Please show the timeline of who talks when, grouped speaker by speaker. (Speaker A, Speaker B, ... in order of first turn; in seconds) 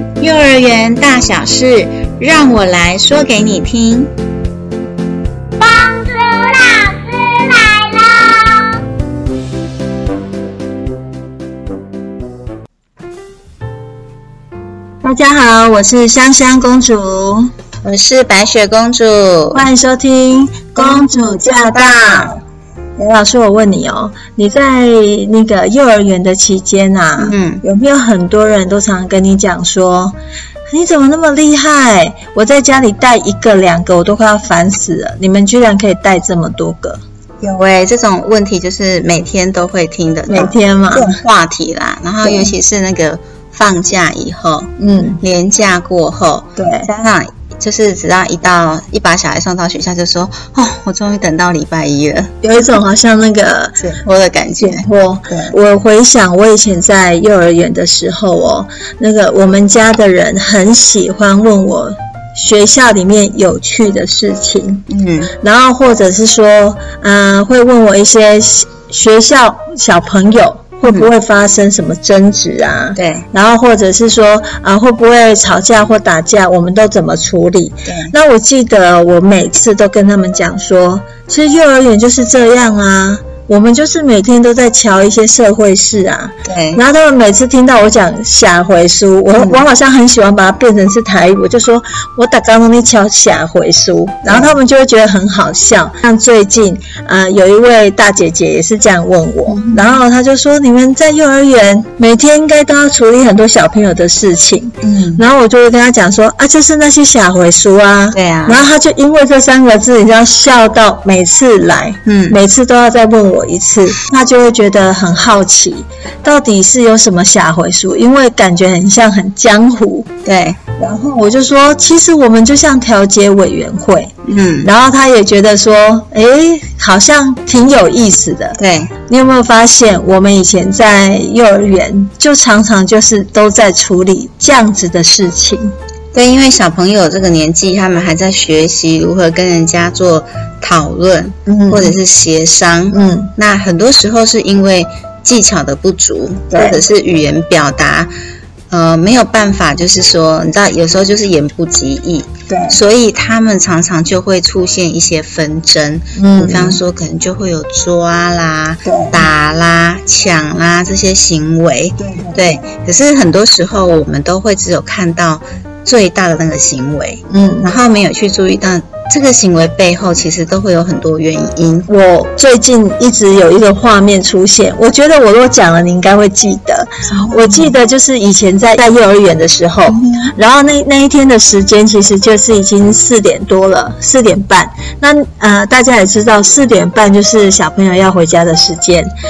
Speaker A: 0.2-4.1, 17.8-19.6, 20.8-22.4, 27.2-27.6, 37.4-52.3, 53.8-55.5, 64.9-65.3, 73.0-73.3, 77.9-78.1, 86.5-86.8, 89.4-89.6, 94.3-94.6, 99.5-100.0, 104.8-105.2, 108.1-108.6, 112.1-112.4, 120.2-120.6, 124.3-124.7, 128.6-128.9, 136.1-148.1, 148.7-171.9, 177.1-177.7, 179.9-180.3
Speaker B: 5.6-8.8
Speaker C: 15.0-17.5, 19.5-22.4, 23.0-30.2, 30.7-37.0, 40.3-41.2, 42.2-42.5, 44.8-45.2, 46.6-46.9, 52.4-53.9, 54.6-120.1, 120.8-135.7, 141.5-142.0, 142.9-143.3, 146.5-146.8, 152.5-152.8, 156.2-156.8, 158.8-159.2, 162.0-162.6, 167.3-167.7, 171.9-189.1